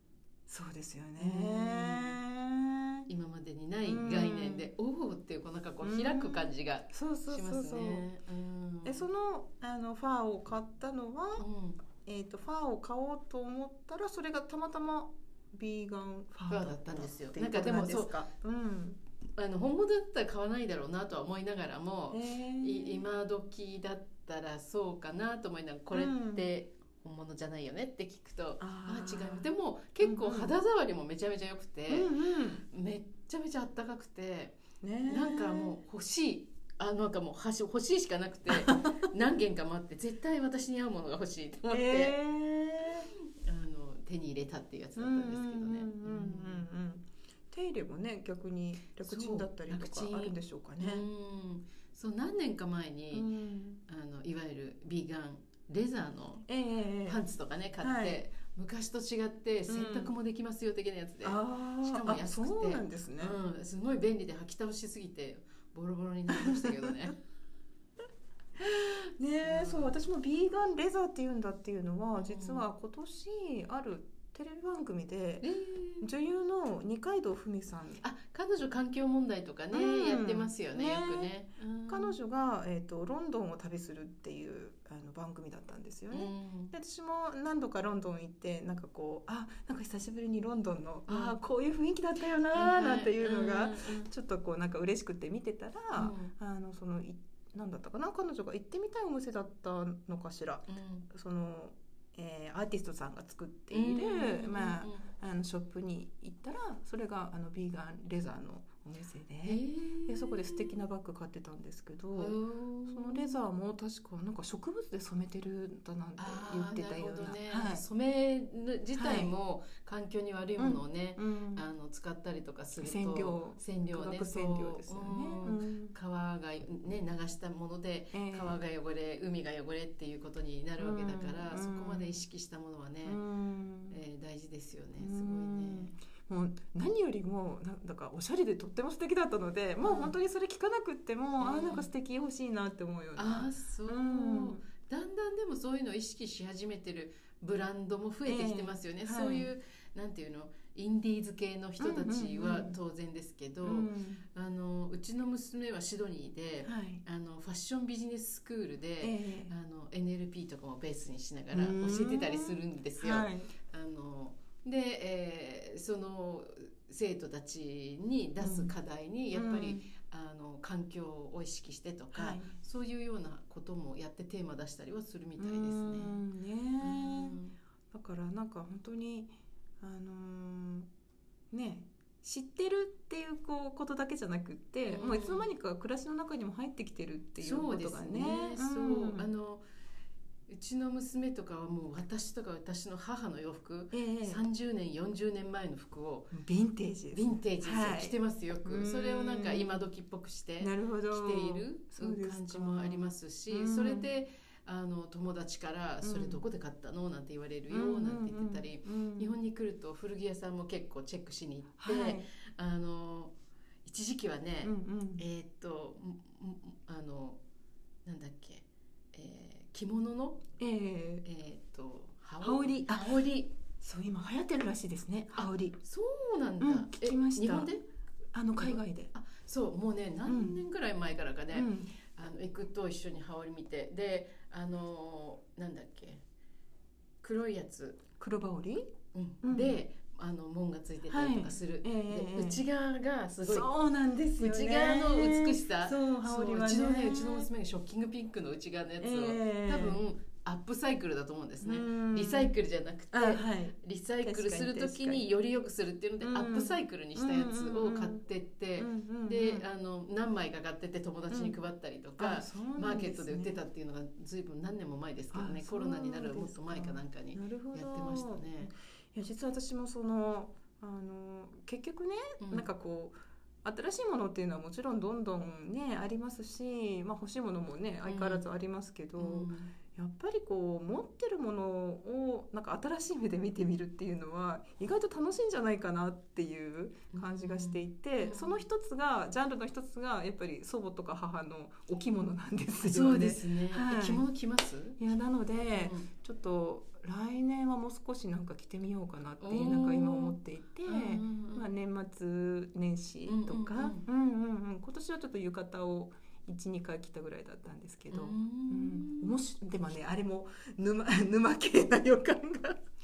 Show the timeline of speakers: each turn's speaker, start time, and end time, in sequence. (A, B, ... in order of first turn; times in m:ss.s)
0:00.5-0:03.1 A
0:01.2-0:02.2 B
0:03.1-0:09.0 B
0:03.8-0:04.7 A
0:05.8-0:08.0 A
0:08.8-0:11.4 A
0:11.4-0:11.8 B
0:12.0-0:19.0 A
0:16.5-0:18.2 B
0:19.4-0:32.1 B
0:22.1-0:23.1 A
0:25.9-0:26.5 A
0:28.6-0:29.5 A
0:30.0-0:30.5 A
0:31.9-0:32.6 A
0:32.7-0:42.2 B
0:34.8-0:35.8 A
0:41.7-0:43.1 A
0:43.0-0:46.7 B
0:45.0-0:51.1 A
0:49.0-0:53.3 B
0:53.1-0:53.8 A
0:53.9-0:56.5 B
0:56.5-0:57.2 A
0:57.1-1:07.2 B
0:57.8-0:58.2 A
0:59.7-1:00.1 A
1:01.2-1:03.4 A
1:06.3-1:06.9 A
1:08.6-1:15.5 A
1:09.4-1:09.9 B
1:12.2-1:12.7 B
1:15.4-1:16.1 B
1:16.0-1:18.0 A
1:18.0-1:22.2 B
1:19.7-1:21.3 A
1:21.9-1:52.4 A
1:26.1-1:26.7 B
1:31.1-1:31.4 B
1:32.5-1:34.1 B
1:35.9-1:36.3 B
1:40.7-1:41.1 B
1:43.7-1:45.1 B
1:49.4-1:50.7 B
1:52.2-1:53.4 B
1:52.9-1:57.8 A
1:56.2-2:13.2 B
1:58.9-1:59.3 A
2:00.6-2:01.6 A
2:02.8-2:05.9 A
2:08.1-2:08.5 A
2:10.8-2:12.1 A
2:13.0-2:14.0 A
2:13.9-2:16.0 B
2:15.0-2:24.6 A
2:19.8-2:20.1 B
2:21.4-2:21.9 B
2:23.2-2:56.2 B
2:28.2-2:29.5 A
2:31.8-2:32.8 A
2:33.6-2:34.2 A
2:36.6-2:37.0 A
2:39.0-2:39.5 A
2:41.5-2:43.5 A
2:48.4-2:48.7 A
2:49.3-2:49.9 A
2:52.1-2:52.5 A
2:55.4-2:57.4 A
2:56.8-2:57.6 B
2:57.9-3:00.9 A
3:01.5-3:09.3 A
3:04.9-3:05.5 B
3:07.4-3:09.6 B
3:10.5-3:16.3 B
3:13.9-3:14.4 A
3:16.3-3:19.9 A
3:17.1-3:33.3 B
3:20.6-3:24.0 A
3:26.0-3:26.4 A
3:27.7-3:29.3 A
3:31.8-3:32.3 A
3:33.8-3:37.4 B
3:34.6-3:35.2 A
3:38.0-3:40.4 B
3:40.6-3:41.2 A
3:41.2-3:43.5 B
3:42.4-3:43.1 A
3:43.8-3:45.8 A
3:45.3-3:47.8 B
3:46.6-3:47.7 A
3:48.3-3:49.1 A
3:48.6-3:56.2 B
3:50.3-3:50.6 A
3:51.5-3:51.9 A
3:57.2-3:58.0 B
3:58.2-3:58.9 A
3:59.1-4:03.7 B
3:59.4-3:59.8 A
4:01.1-4:02.6 A
4:03.4-4:07.5 A
4:04.4-4:28.7 B
4:09.0-4:10.0 A
4:11.6-4:12.5 A
4:13.1-4:15.3 A
4:16.2-4:18.2 A
4:18.8-4:19.6 A
4:21.3-4:21.6 A
4:22.2-4:23.6 A
4:25.3-4:54.2 A
4:32.4-4:32.7 B
4:38.0-4:38.4 B
4:39.2-4:39.7 B
4:47.1-4:48.6 B
4:52.8-4:55.0 B
4:55.0-5:12.8 A
4:55.7-4:56.1 B
4:59.4-5:01.7 B
5:03.2-5:04.0 B
5:08.1-5:09.4 B